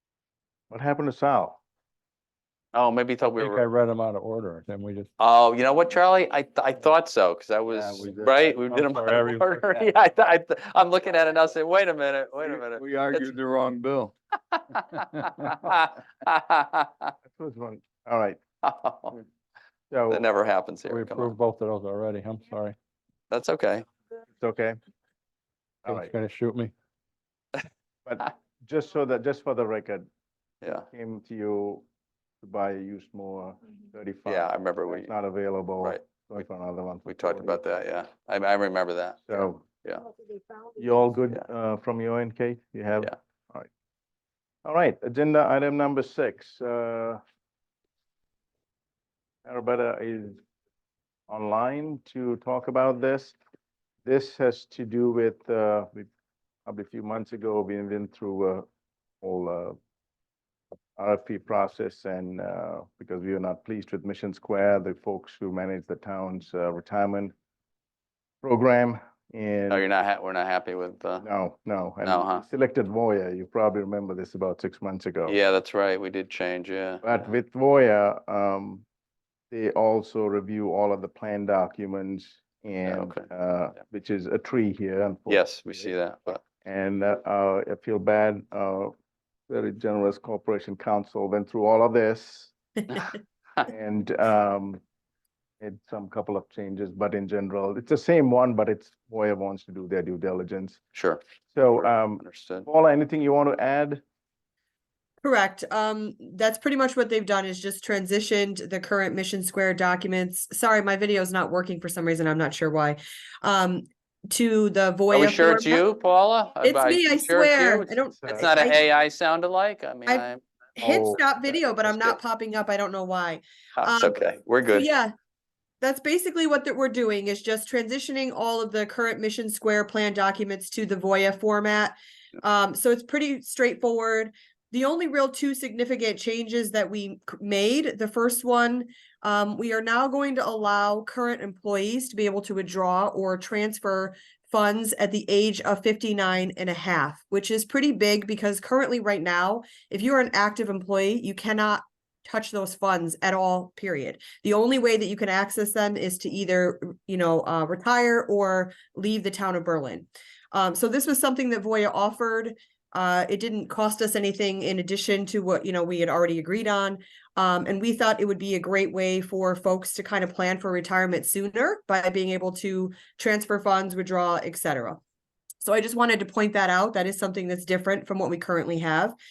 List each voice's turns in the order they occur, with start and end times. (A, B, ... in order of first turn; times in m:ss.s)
0:00.7-0:01.6 A
0:02.7-0:03.6 B
0:03.4-0:05.1 C
0:05.2-0:13.3 B
0:07.7-0:08.5 D
0:07.9-0:09.9 C
0:12.4-0:14.1 D
0:14.6-0:17.1 B
0:17.3-0:18.4 A
0:18.6-0:19.2 B
0:19.9-0:20.2 A
0:20.1-0:21.3 B
0:20.8-0:22.8 C
0:23.3-0:23.9 B
0:24.4-0:24.8 A
0:25.8-0:26.1 A
0:25.8-0:26.7 C
0:28.0-0:30.1 A
0:30.6-0:30.9 B
0:30.9-0:31.8 A
0:32.4-0:37.6 A
0:34.2-0:35.1 B
0:35.8-0:36.4 B
0:37.0-0:40.0 B
0:39.3-0:39.6 A
0:40.8-0:43.7 A
0:44.6-0:47.2 A
0:49.4-0:50.4 A
0:51.3-0:53.4 A
0:54.0-0:56.1 A
0:56.6-0:58.6 A
0:59.2-0:59.8 A
1:01.0-1:07.3 A
1:08.4-1:09.8 A
1:09.7-1:11.2 B
1:11.2-1:15.4 A
1:12.0-1:12.4 B
1:15.2-1:17.3 B
1:17.0-1:18.8 A
1:19.5-1:25.9 A
1:22.8-1:23.2 B
1:25.3-1:26.4 B
1:26.5-1:28.9 A
1:29.5-1:32.5 A
1:33.6-1:34.8 A
1:35.6-1:40.8 A
1:40.9-1:41.2 B
1:41.5-1:44.0 A
1:41.8-1:42.6 B
1:45.2-1:55.8 E
1:55.1-2:00.4 B
1:56.6-1:58.8 E
1:58.2-1:58.7 A
2:00.8-2:05.1 E
2:00.8-2:01.2 A
2:01.8-2:02.2 B
2:03.8-2:04.9 B
2:05.8-2:55.0 E
2:55.6-2:59.2 E